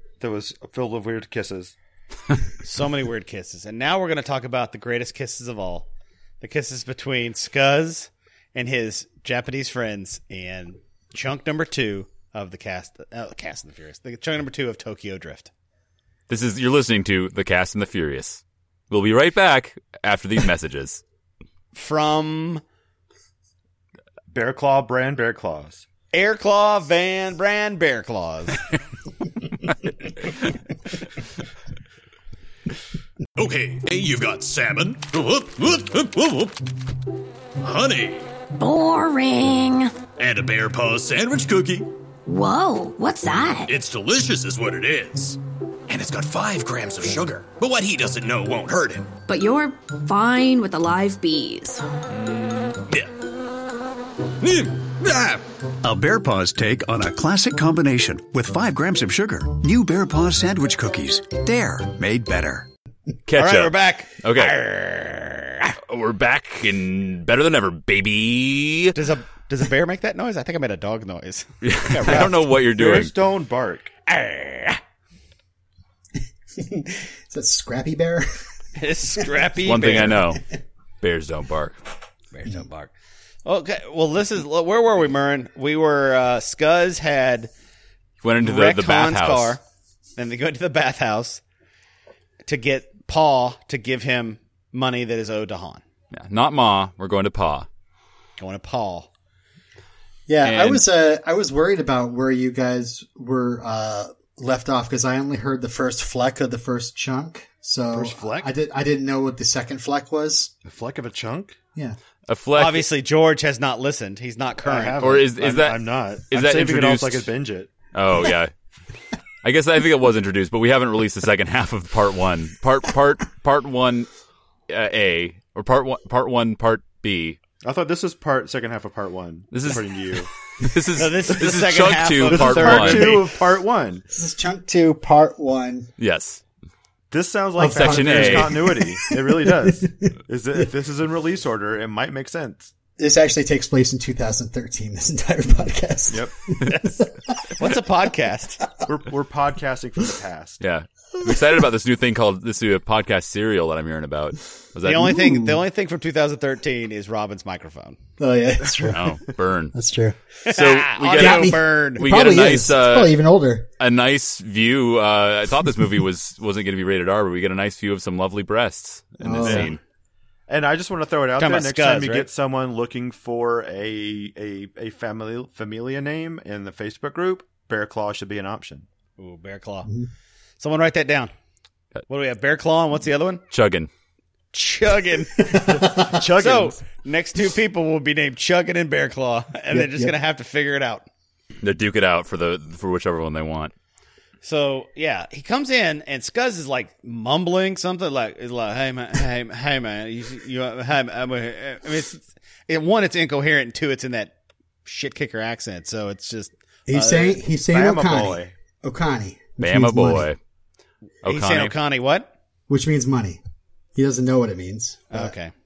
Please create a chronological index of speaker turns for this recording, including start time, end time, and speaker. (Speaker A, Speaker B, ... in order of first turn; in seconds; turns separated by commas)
Speaker A: 0.2-1.7, Speaker B: 2.6-5.9, Speaker B: 6.4-15.5, Speaker C: 16.3-21.0, Speaker B: 21.7-22.6, Speaker A: 24.3-25.8, Speaker B: 26.1-28.6, Speaker D: 33.4-36.7, Speaker D: 37.6-38.3, Speaker E: 38.6-40.0, Speaker D: 40.1-41.9, Speaker E: 42.3-43.7, Speaker D: 43.7-49.2, Speaker E: 49.3-51.9, Speaker D: 52.2-53.2, Speaker D: 54.4-55.5, Speaker F: 55.8-62.7, Speaker C: 63.3-64.6, Speaker B: 63.4-65.8, Speaker C: 65.9-69.0, Speaker B: 69.0-72.4, Speaker C: 71.6-73.1, Speaker A: 72.1-73.9, Speaker B: 74.1-74.8, Speaker G: 76.6-78.3, Speaker B: 78.8-80.2, Speaker C: 79.6-80.4, Speaker C: 81.0-81.8, Speaker B: 82.3-82.9, Speaker B: 83.5-87.5, Speaker C: 88.2-89.6, Speaker B: 88.4-89.6, Speaker B: 90.2-91.4, Speaker B: 92.4-95.8, Speaker C: 96.1-97.7, Speaker B: 98.4-99.1, Speaker G: 100.3-110.5, Speaker C: 100.4-100.8, Speaker A: 107.9-108.5, Speaker A: 110.7-111.6, Speaker C: 112.3-112.9, Speaker B: 112.6-115.0, Speaker A: 114.6-117.7, Speaker C: 115.0-117.3, Speaker C: 117.9-118.5, Speaker C: 119.4-124.1, Speaker C: 124.7-127.4, Speaker A: 127.6-130.3, Speaker C: 129.5-133.3, Speaker B: 131.0-133.3, Speaker A: 132.3-134.0, Speaker G: 134.1-135.9, Speaker C: 136.0-136.4, Speaker A: 137.1-142.7, Speaker G: 137.6-140.1, Speaker C: 137.7-138.8, Speaker G: 143.0-147.5, Speaker B: 147.6-148.6, Speaker A: 148.8-150.6, Speaker C: 150.6-155.2, Speaker G: 151.2-151.6, Speaker B: 154.8-158.0, Speaker G: 155.0-155.6, Speaker G: 158.2-159.0, Speaker A: 158.7-158.9, Speaker C: 158.9-159.7, Speaker G: 159.7-160.2, Speaker B: 160.5-162.1, Speaker C: 160.5-163.2, Speaker G: 161.2-163.7, Speaker C: 163.8-169.8, Speaker G: 169.2-169.8, Speaker A: 169.4-169.7, Speaker A: 170.5-178.9, Speaker B: 171.4-172.3, Speaker B: 179.2-179.9, Speaker B: 180.6-181.3, Speaker B: 182.1-183.4, Speaker C: 183.5-183.9, Speaker B: 184.5-191.1, Speaker G: 185.5-186.0, Speaker A: 185.6-186.8, Speaker G: 189.7-190.1, Speaker C: 191.6-193.7, Speaker B: 194.4-204.3, Speaker B: 204.8-207.4, Speaker G: 206.9-210.3, Speaker A: 207.7-208.5, Speaker C: 209.6-210.4, Speaker C: 211.2-211.7, Speaker B: 211.2-212.3, Speaker G: 212.7-213.4, Speaker G: 214.0-215.3, Speaker B: 215.1-215.5